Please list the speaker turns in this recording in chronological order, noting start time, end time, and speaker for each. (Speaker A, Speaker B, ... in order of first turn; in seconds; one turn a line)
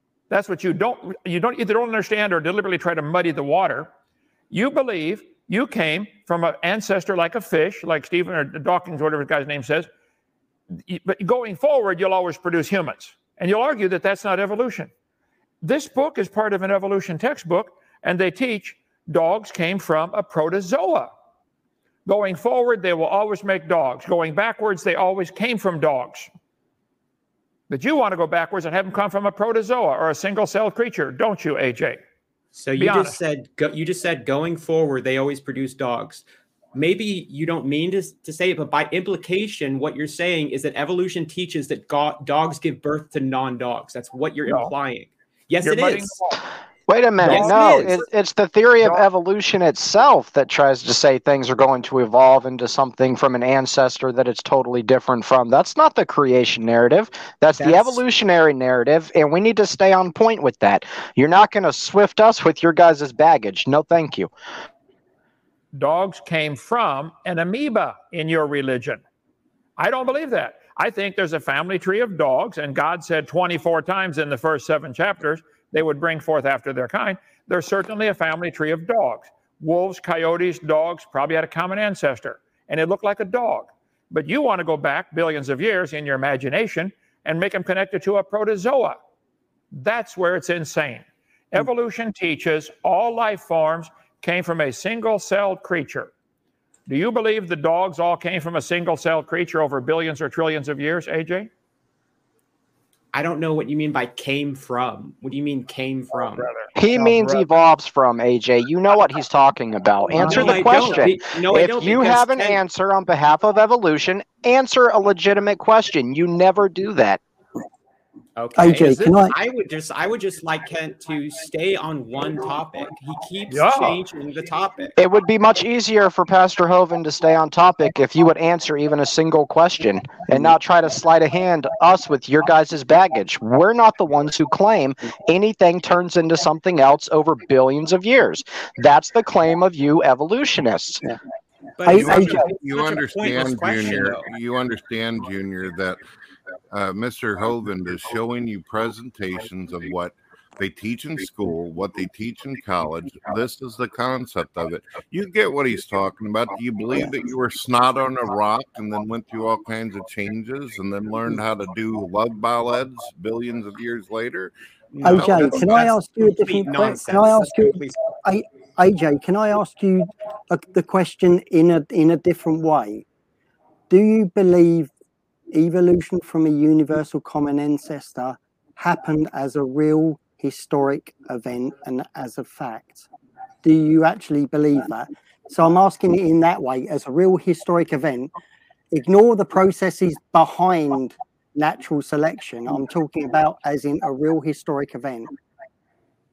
Speaker A: 0.3-3.9
Speaker A: 4.5-9.9
Speaker A: 10.7-14.9
Speaker A: 15.6-21.1
Speaker A: 22.1-26.3
Speaker A: 27.7-32.0
Speaker B: 32.5-36.2
Speaker A: 32.8-33.2
Speaker B: 36.7-46.1
Speaker A: 44.5-44.7
Speaker A: 45.6-46.4
Speaker C: 46.9-64.3
Speaker B: 47.2-48.0
Speaker A: 47.2-48.0
Speaker B: 57.6-58.0
Speaker A: 65.7-69.0
Speaker A: 69.8-89.0
Speaker A: 89.7-96.1
Speaker A: 96.9-101.5
Speaker B: 103.1-106.5
Speaker A: 106.4-107.5
Speaker C: 106.7-117.2
Speaker B: 110.1-112.6
Speaker D: 110.2-111.0
Speaker B: 118.4-125.0
Speaker D: 118.5-119.3
Speaker A: 123.5-124.0
Speaker C: 125.0-141.0
Speaker B: 141.8-144.3
Speaker D: 141.8-142.5
Speaker E: 141.9-146.0
Speaker E: 146.7-164.5
Speaker B: 164.9-168.0
Speaker D: 165.0-173.0
Speaker E: 165.0-165.8
Speaker D: 173.9-174.9
Speaker D: 175.5-183.1
Speaker D: 183.6-188.3
Speaker D: 188.9-195.3